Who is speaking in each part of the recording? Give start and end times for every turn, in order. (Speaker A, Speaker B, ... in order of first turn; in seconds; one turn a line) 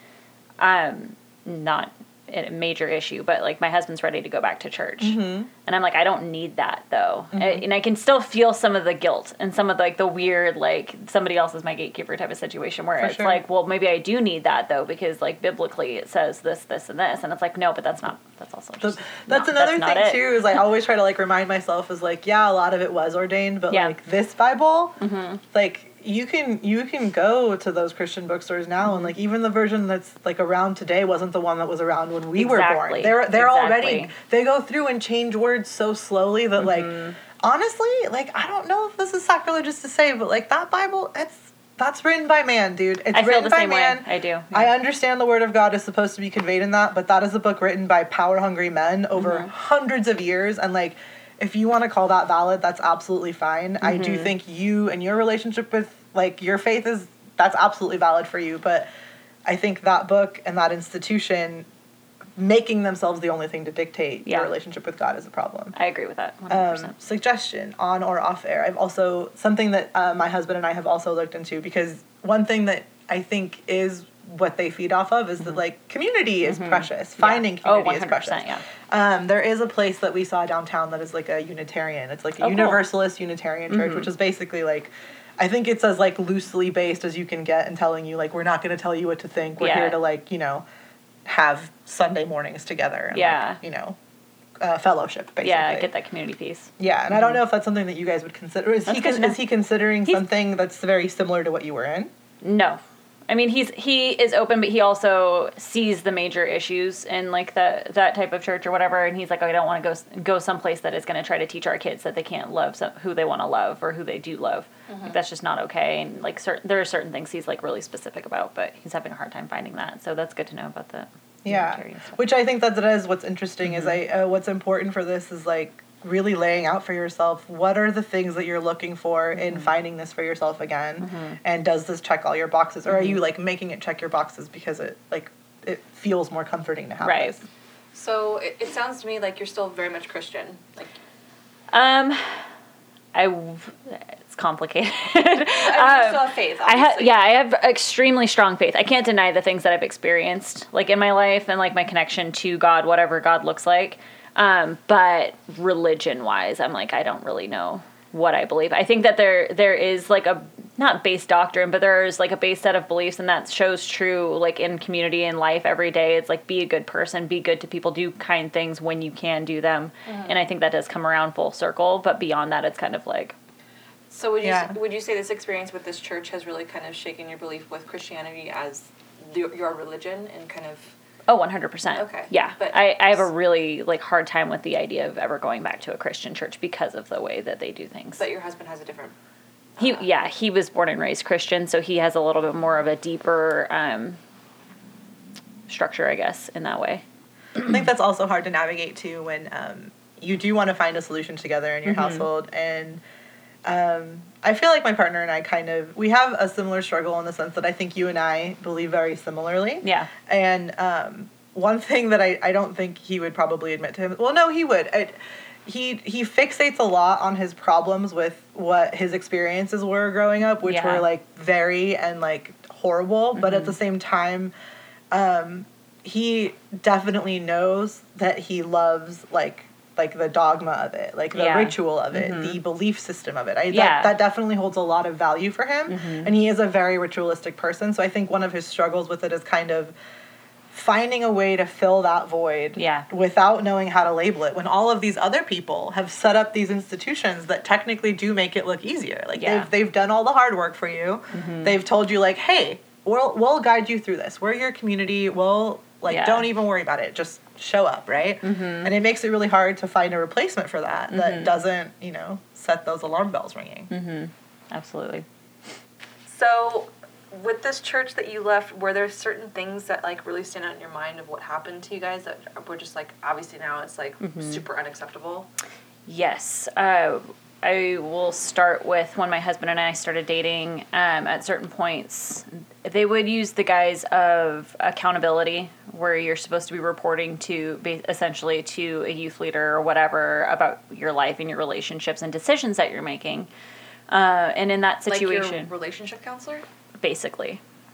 Speaker A: 0.6-20.3
Speaker B: 5.0-5.5
Speaker B: 7.3-7.6
Speaker B: 13.0-13.4
Speaker B: 18.8-25.0
Speaker A: 23.7-23.9
Speaker A: 25.0-25.4
Speaker B: 25.5-58.9
Speaker A: 28.9-29.1
Speaker A: 32.4-34.1
Speaker A: 36.6-37.2
Speaker A: 43.1-44.7
Speaker A: 49.2-49.5
Speaker A: 53.8-54.3
Speaker B: 59.5-61.7
Speaker B: 62.4-65.8
Speaker A: 64.3-64.5
Speaker A: 65.8-67.0
Speaker B: 66.5-90.6
Speaker A: 76.5-78.6
Speaker A: 82.4-82.8
Speaker A: 83.7-84.1
Speaker A: 89.6-90.0
Speaker B: 91.3-94.0
Speaker A: 93.1-93.6
Speaker B: 94.6-95.9
Speaker A: 95.4-97.4
Speaker B: 96.8-102.1
Speaker A: 98.9-99.4
Speaker A: 102.4-122.2
Speaker C: 114.9-115.2
Speaker B: 121.5-137.4
Speaker A: 123.6-124.0
Speaker A: 129.4-129.7
Speaker A: 131.0-131.4
Speaker A: 132.9-133.2
Speaker A: 137.0-137.4
Speaker C: 137.9-140.9
Speaker A: 141.7-142.4
Speaker A: 143.2-173.3
Speaker C: 145.6-147.3
Speaker C: 170.1-170.3
Speaker C: 174.1-180.9
Speaker B: 174.4-174.8
Speaker A: 181.3-188.2
Speaker C: 182.0-183.3
Speaker C: 188.2-189.2
Speaker A: 189.8-194.2
Speaker A: 195.7-197.0
Speaker B: 197.6-203.0
Speaker A: 201.9-202.2
Speaker B: 203.7-215.2
Speaker A: 209.8-210.1
Speaker B: 215.7-224.5
Speaker A: 220.7-221.1
Speaker A: 223.3-223.8
Speaker B: 225.1-239.9
Speaker A: 231.3-232.6
Speaker A: 233.7-234.2
Speaker A: 235.9-236.3
Speaker B: 240.7-263.9
Speaker A: 242.8-243.1
Speaker A: 249.4-249.7
Speaker A: 251.3-251.8
Speaker A: 256.1-256.5
Speaker A: 258.4-258.9
Speaker A: 261.1-261.5
Speaker A: 263.9-265.2
Speaker C: 266.3-275.5
Speaker A: 274.2-274.6
Speaker A: 276.1-293.5
Speaker A: 294.1-295.7
Speaker C: 295.1-296.7
Speaker A: 297.0-297.6